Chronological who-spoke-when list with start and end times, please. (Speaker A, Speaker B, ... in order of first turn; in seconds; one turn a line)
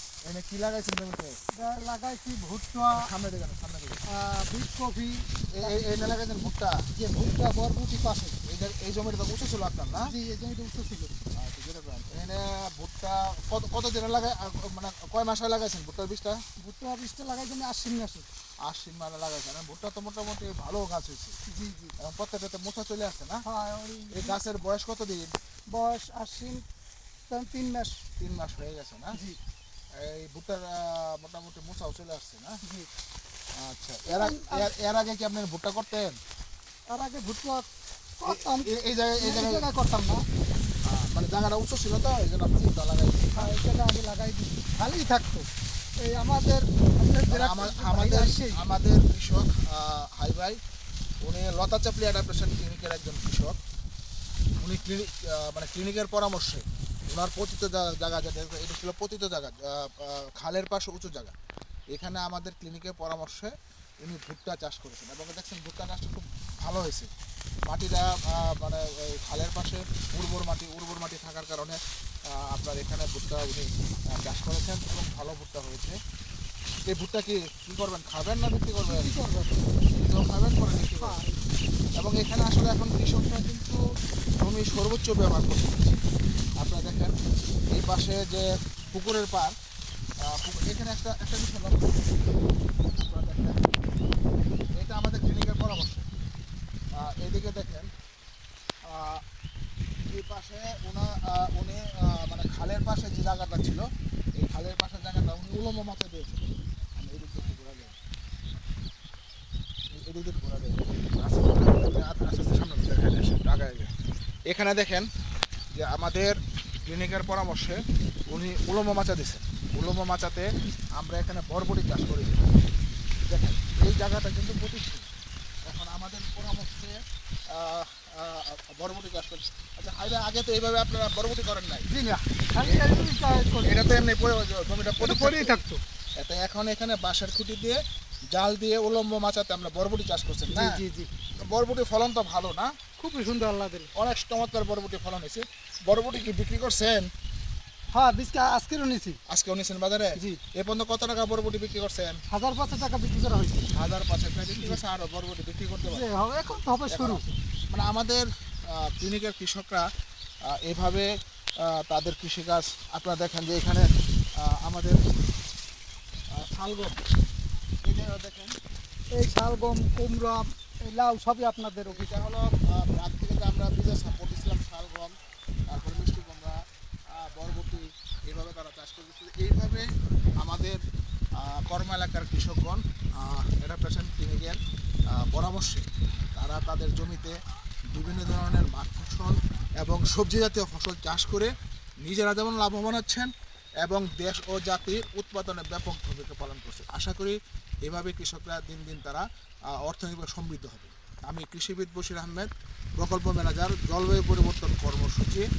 Speaker A: 0.2-1.4
Speaker B: 1.6-3.0
Speaker A: 2.9-4.0
Speaker B: 4.1-5.8
Speaker A: 5.6-6.8
Speaker B: 6.9-8.4
Speaker A: 8.5-10.1
Speaker B: 10.1-11.1
Speaker A: 11.4-16.4
Speaker B: 16.6-18.2
Speaker A: 18.6-21.4
Speaker B: 21.5-21.9
Speaker A: 22.0-23.4
Speaker B: 23.4-24.4
Speaker A: 24.1-25.3
Speaker B: 25.7-26.6
Speaker B: 27.3-28.0
Speaker A: 28.2-29.2
Speaker A: 30.0-32.6
Speaker A: 33.6-36.2
Speaker B: 34.1-34.6
Speaker B: 36.9-37.7
Speaker B: 38.2-38.7
Speaker A: 38.3-39.6
Speaker B: 39.2-40.2
Speaker A: 40.9-43.5
Speaker B: 43.4-45.4
Speaker B: 46.0-48.6
Speaker A: 47.3-50.6
Speaker A: 51.2-53.6
Speaker A: 54.6-61.3
Speaker A: 61.9-67.1
Speaker A: 67.7-71.8
Speaker A: 72.4-75.9
Speaker A: 76.9-79.1
Speaker B: 78.9-79.7
Speaker A: 79.9-81.2
Speaker B: 81.0-81.4
Speaker A: 82.0-83.8
Speaker A: 84.4-86.0
Speaker A: 86.6-87.1
Speaker A: 87.7-89.5
Speaker A: 90.3-92.2
Speaker A: 92.9-93.8
Speaker A: 94.8-96.0
Speaker A: 97.0-97.9
Speaker A: 98.9-99.2
Speaker A: 100.0-103.8
Speaker A: 104.4-106.4
Speaker A: 107.0-108.0
Speaker A: 109.9-113.9
Speaker A: 114.5-115.0
Speaker A: 115.8-116.3
Speaker A: 116.9-117.8
Speaker A: 118.3-122.5
Speaker A: 123.3-125.0
Speaker A: 125.7-127.0
Speaker A: 127.5-131.8
Speaker B: 131.9-134.0
Speaker A: 133.7-135.5
Speaker B: 135.0-135.8
Speaker A: 136.2-137.8
Speaker A: 138.3-140.8
Speaker B: 140.5-141.1
Speaker A: 141.5-142.7
Speaker B: 143.0-143.9
Speaker A: 143.9-147.1
Speaker B: 147.9-149.2
Speaker A: 149.3-152.2
Speaker B: 152.3-153.7
Speaker A: 153.7-156.1
Speaker B: 155.8-157.2
Speaker A: 156.9-159.8
Speaker A: 160.5-161.1
Speaker A: 161.7-163.8
Speaker A: 164.4-165.0
Speaker A: 166.4-167.0
Speaker A: 167.8-168.5
Speaker B: 169.1-172.1
Speaker A: 171.8-175.1
Speaker A: 175.7-176.6
Speaker A: 177.1-179.9
Speaker A: 180.4-180.8
Speaker A: 181.4-184.6
Speaker A: 185.1-187.3
Speaker A: 187.9-191.5
Speaker A: 192.0-193.3
Speaker A: 193.8-205.4